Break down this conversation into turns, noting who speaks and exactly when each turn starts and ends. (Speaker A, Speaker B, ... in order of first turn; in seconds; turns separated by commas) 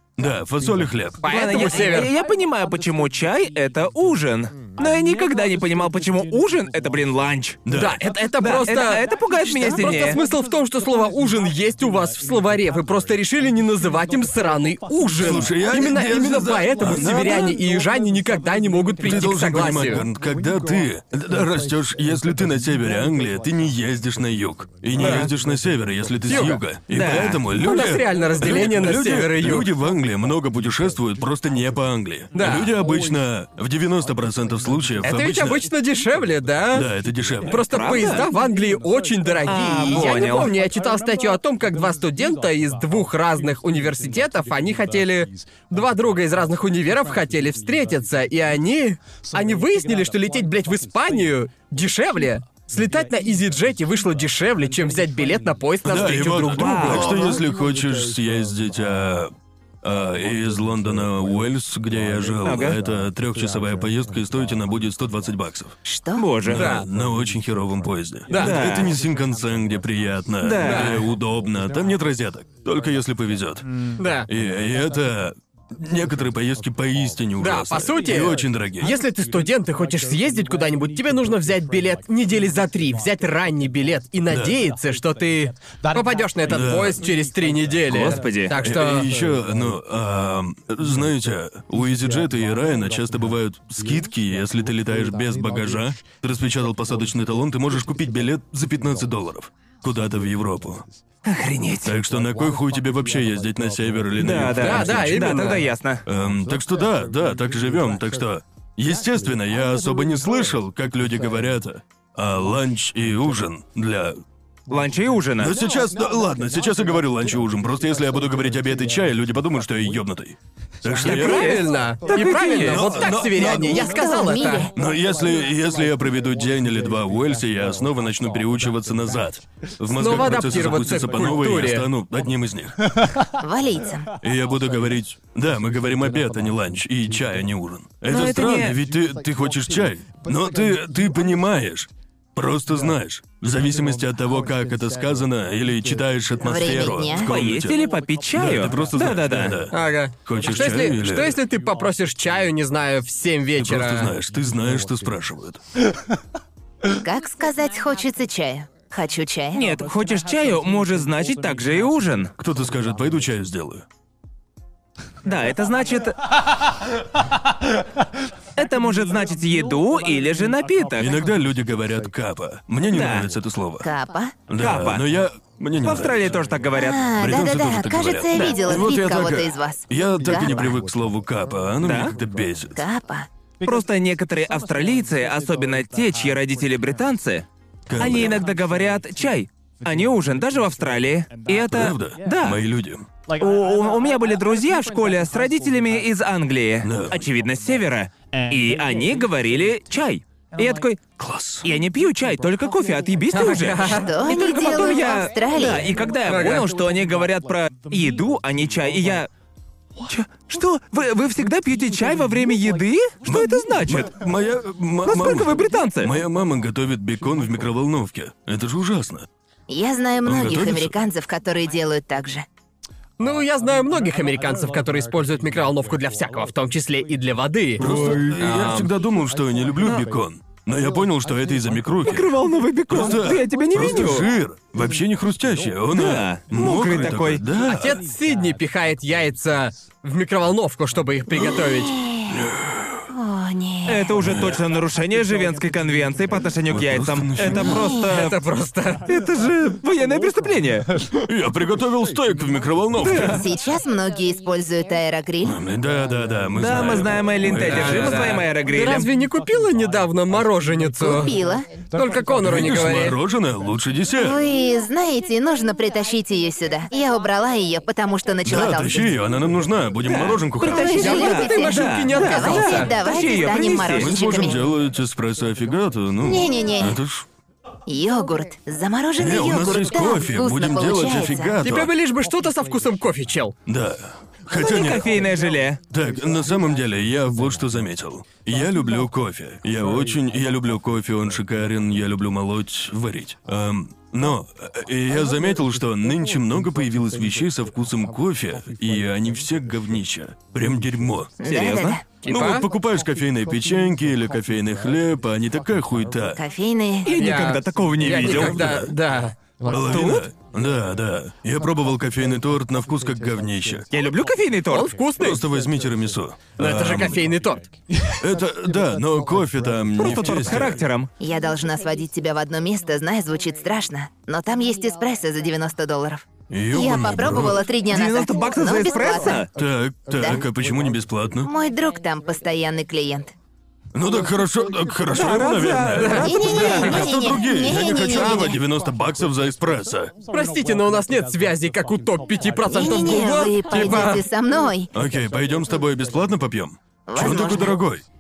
Speaker A: 0.2-1.2, Speaker B: 1.2-2.1, Speaker C: 1.2-7.6, Speaker A: 7.7-8.0, Speaker B: 7.7-20.1, Speaker C: 8.4-10.2, Speaker A: 15.2-17.6, Speaker A: 19.0-35.7, Speaker B: 25.0-25.3, Speaker B: 26.3-26.6, Speaker C: 26.9-27.4, Speaker B: 27.5-29.7, Speaker B: 32.3-32.7, Speaker B: 35.0-36.9, Speaker A: 36.7-37.6, Speaker B: 37.5-57.2, Speaker C: 37.5-38.3, Speaker C: 39.5-40.5, Speaker A: 55.8-65.8, Speaker C: 56.5-57.4, Speaker C: 62.4-62.8, Speaker D: 65.9-66.3, Speaker C: 66.2-66.7, Speaker A: 66.5-73.7, Speaker B: 66.6-66.9, Speaker B: 68.3-68.6, Speaker C: 68.4-68.9, Speaker C: 70.4-71.0, Speaker B: 70.6-71.0, Speaker B: 74.0-74.3, Speaker A: 74.3-78.9, Speaker B: 77.4-89.1, Speaker A: 84.3-84.6, Speaker A: 86.5-87.0, Speaker C: 87.9-88.6, Speaker A: 88.6-100.9, Speaker C: 101.2-101.9, Speaker A: 101.8-105.5, Speaker C: 104.2-106.0, Speaker B: 104.6-105.6, Speaker A: 106.1-114.2, Speaker C: 114.7-115.6, Speaker A: 115.4-121.6, Speaker C: 121.0-122.9, Speaker B: 121.0-124.7, Speaker A: 122.6-124.0, Speaker D: 123.4-124.7, Speaker A: 124.7-132.8, Speaker B: 130.0-131.9, Speaker D: 133.4-134.1, Speaker A: 134.2-147.8, Speaker C: 138.1-138.8, Speaker D: 146.4-147.3, Speaker C: 147.2-149.6, Speaker A: 148.3-151.4, Speaker B: 149.7-154.1, Speaker A: 153.6-155.6, Speaker D: 157.0-159.6, Speaker C: 159.5-162.3, Speaker A: 162.4-163.8, Speaker C: 165.2-166.2, Speaker C: 168.6-171.2, Speaker A: 171.0-173.9, Speaker C: 172.9-173.3, Speaker D: 173.8-174.4, Speaker A: 174.5-176.4, Speaker C: 174.6-175.0, Speaker C: 175.8-177.1, Speaker D: 176.7-180.7, Speaker A: 177.1-182.8, Speaker C: 178.3-178.6, Speaker C: 181.8-182.1, Speaker D: 182.8-183.3, Speaker C: 183.6-192.6, Speaker A: 187.9-188.4, Speaker A: 191.7-193.1, Speaker C: 193.4-201.0, Speaker A: 196.8-197.2, Speaker A: 201.2-201.7, Speaker C: 201.6-209.3, Speaker B: 203.3-204.3, Speaker D: 203.8-205.9, Speaker B: 206.2-206.7, Speaker C: 210.1-214.1, Speaker A: 213.3-219.3, Speaker C: 215.1-216.1, Speaker D: 219.7-222.5, Speaker A: 220.2-220.9, Speaker B: 223.2-228.9, Speaker A: 227.8-232.3, Speaker C: 232.0-234.3, Speaker A: 232.9-238.0, Speaker C: 235.9-237.4, Speaker B: 237.6-242.0, Speaker A: 241.4-241.8, Speaker D: 241.8-242.4, Speaker A: 242.3-243.1, Speaker D: 243.1-244.2, Speaker C: 243.8-248.4, Speaker A: 244.2-244.6, Speaker A: 246.7-247.8, Speaker D: 247.6-248.3, Speaker B: 248.1-249.0, Speaker C: 249.1-250.9, Speaker A: 251.2-253.5, Speaker C: 253.0-253.4, Speaker D: 253.2-255.6, Speaker A: 255.4-258.3, Speaker C: 256.6-259.1, Speaker B: 257.7-261.3, Speaker D: 261.0-261.7, Speaker B: 261.9-263.2, Speaker A: 262.4-264.4, Speaker D: 264.2-269.0, Speaker A: 268.4-271.2, Speaker C: 270.1-274.1, Speaker D: 270.6-274.6, Speaker B: 270.8-272.9, Speaker A: 273.9-277.3, Speaker D: 276.2-277.0, Speaker D: 277.9-281.6, Speaker A: 279.2-281.9, Speaker B: 281.6-283.6, Speaker A: 283.7-285.1, Speaker C: 284.5-285.8, Speaker A: 285.9-301.3, Speaker D: 301.4-302.0, Speaker C: 301.4-302.0, Speaker B: 302.2-302.7, Speaker A: 302.3-306.4, Speaker D: 306.4-307.1, Speaker C: 307.0-308.8, Speaker B: 307.2-309.4, Speaker A: 308.0-308.9, Speaker A: 309.7-313.9, Speaker C: 309.7-310.3, Speaker C: 313.9-314.9, Speaker B: 314.7-315.4, Speaker A: 315.2-317.2, Speaker B: 316.6-317.7, Speaker A: 318.2-320.8, Speaker C: 320.0-321.1, Speaker D: 321.2-329.4, Speaker A: 326.5-327.7, Speaker C: 327.9-329.5, Speaker A: 329.6-331.5, Speaker D: 330.2-330.4, Speaker D: 331.5-333.3, Speaker A: 333.9-340.1, Speaker C: 335.1-337.1, Speaker B: 336.0-336.9, Speaker D: 336.2-338.6, Speaker B: 340.3-344.2, Speaker D: 342.7-344.9, Speaker A: 344.9-348.0, Speaker D: 347.1-347.8